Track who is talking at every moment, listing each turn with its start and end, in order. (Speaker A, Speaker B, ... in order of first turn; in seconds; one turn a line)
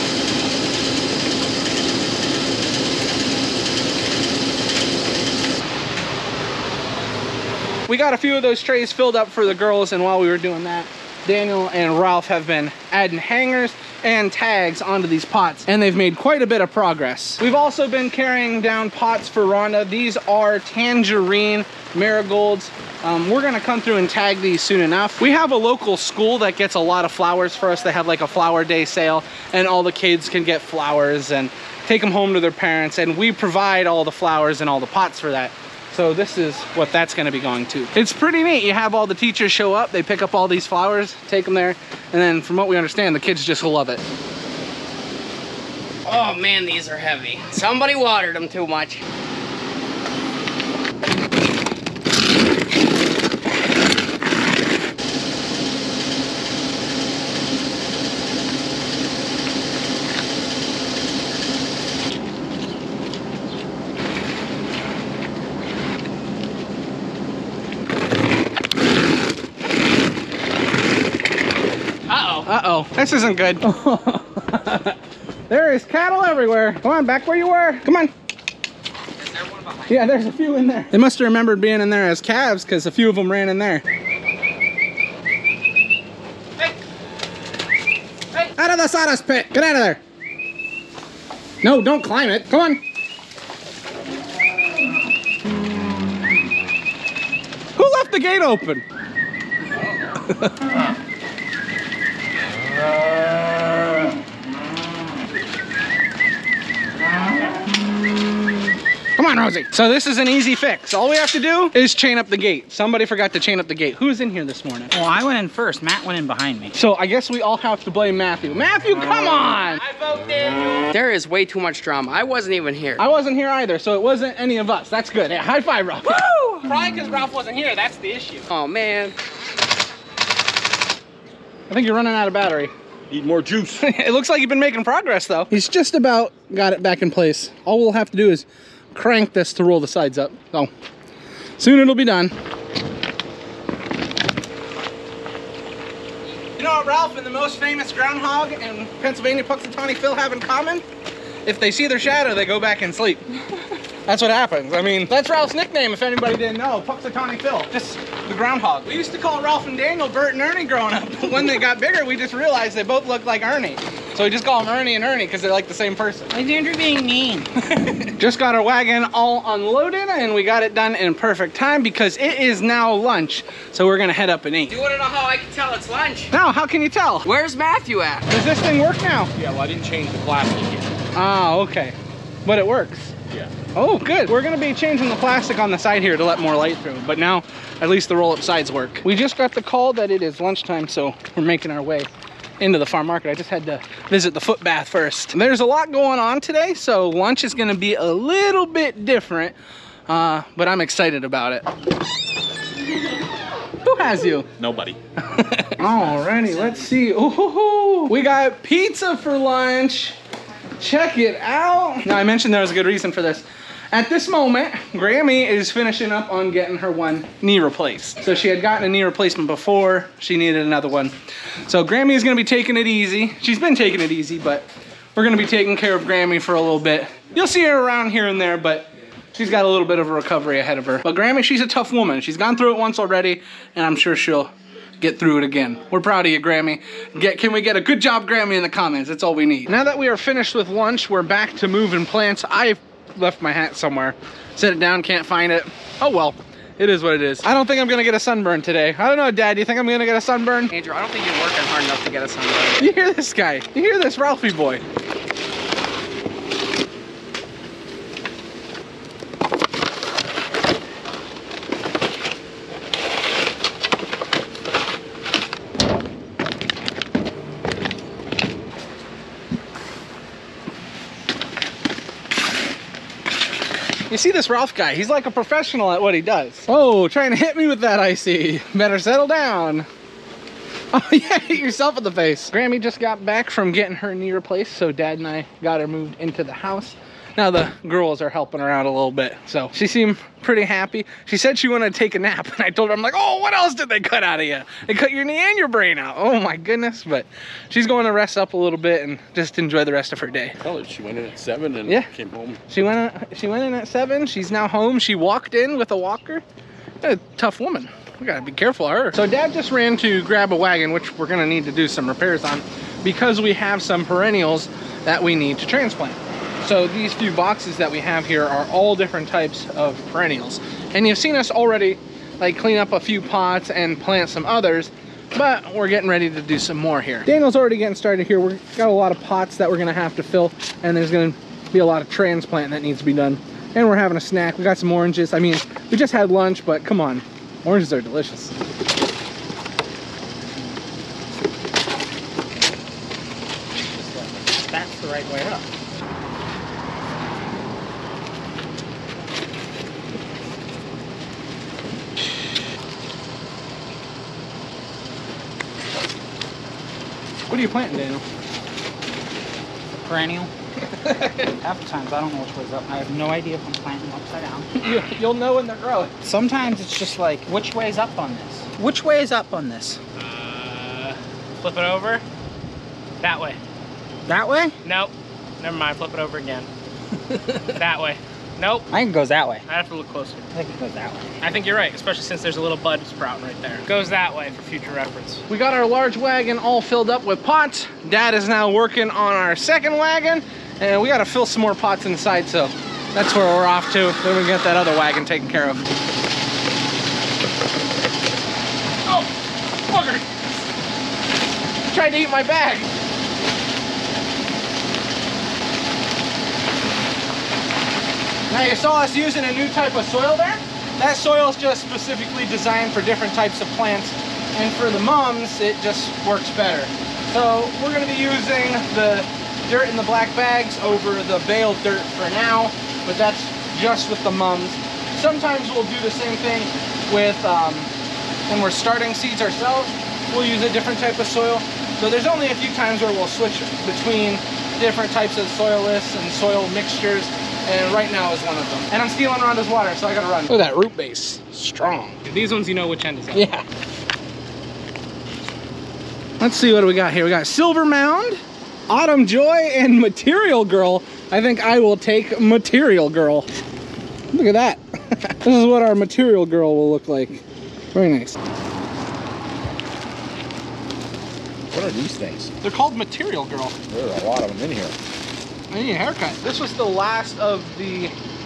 Speaker A: 7.9-44.0
Speaker B: 46.1-49.0
Speaker B: 72.1-72.4
Speaker A: 72.4-75.0
Speaker A: 75.5-78.1
Speaker B: 79.2-79.9
Speaker A: 79.9-83.8
Speaker A: 88.5-90.0
Speaker A: 91.6-92.8
Speaker A: 97.8-98.8
Speaker A: 109.2-114.9
Speaker C: 114.9-116.8
Speaker A: 116.7-119.9
Speaker B: 120.9-123.0
Speaker A: 123.0-128.5
Speaker B: 128.5-129.2
Speaker A: 131.7-132.7
Speaker D: 133.1-133.8
Speaker A: 133.8-140.7
Speaker A: 141.6-142.3
Speaker A: 146.6-150.8
Speaker A: 151.4-153.2
Speaker A: 154.1-166.3
Speaker C: 166.3-167.6
Speaker A: 168.2-174.7
Speaker B: 174.7-176.3
Speaker A: 176.3-177.3
Speaker B: 177.2-178.3
Speaker A: 178.3-179.3
Speaker D: 179.4-180.9
Speaker A: 181.1-183.1
Speaker A: 183.8-192.1
Speaker A: 192.6-199.6
Speaker A: 200.1-201.7
Speaker A: 203.8-204.5
Speaker D: 204.6-205.0
Speaker A: 205.2-210.2
Speaker A: 210.8-221.2
Speaker A: 221.7-250.7
Speaker B: 250.7-252.9
Speaker A: 252.8-254.8
Speaker A: 274.1-279.9
Speaker A: 280.9-300.6
Speaker D: 300.6-302.6
Speaker A: 302.7-306.4
Speaker A: 307.0-338.5
Speaker C: 343.9-345.7
Speaker A: 357.5-358.2
Speaker C: 360.0-360.5
Speaker A: 361.0-361.5
Speaker C: 361.6-364.7
Speaker A: 364.8-366.1
Speaker C: 366.2-370.0
Speaker E: 370.2-372.2
Speaker E: 373.2-373.6
Speaker C: 374.3-374.8
Speaker E: 374.8-376.7
Speaker E: 377.7-378.9
Speaker C: 378.9-379.6
Speaker E: 379.7-380.5
Speaker C: 380.5-381.4
Speaker E: 381.4-385.4
Speaker A: 385.5-395.8
Speaker A: 399.9-400.2
Speaker A: 401.9-402.9
Speaker A: 408.5-427.9
Speaker A: 428.5-442.3
Speaker E: 442.3-443.4
Speaker A: 443.3-443.6
Speaker A: 446.4-453.5
Speaker A: 454.3-457.4
Speaker A: 457.9-458.4
Speaker D: 461.7-462.5
Speaker A: 462.6-463.8
Speaker D: 463.9-464.9
Speaker A: 465.7-468.1